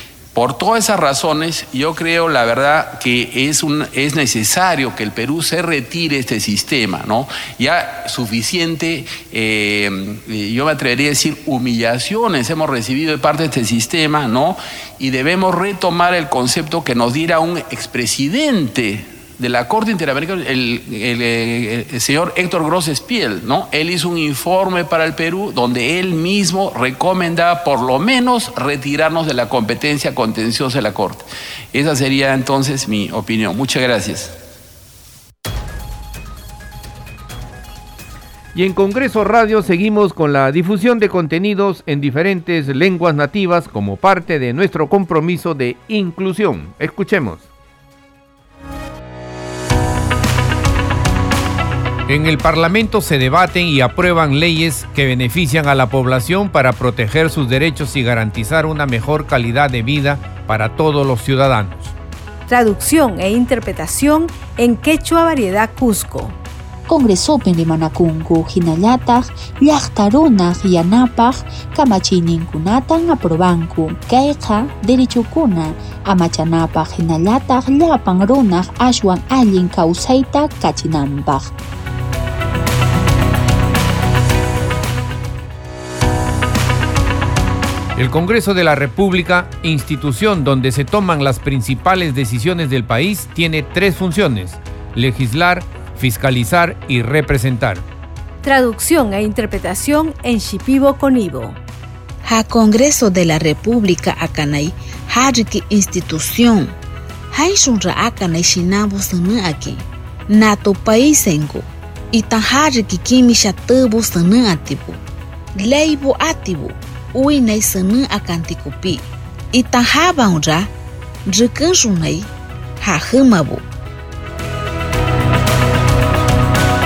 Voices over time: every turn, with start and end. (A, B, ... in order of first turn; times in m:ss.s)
0:00.4-0:34.3 A
0:38.6-0:47.5 B
0:52.1-1:01.9 B
1:02.5-1:06.4 C
1:06.9-1:21.5 D
1:28.0-1:37.8 B
1:38.4-1:41.6 C
1:42.2-1:46.7 E
1:47.3-1:55.0 E
1:55.6-2:00.7 E
2:01.3-2:02.3 E
2:02.8-2:03.6 E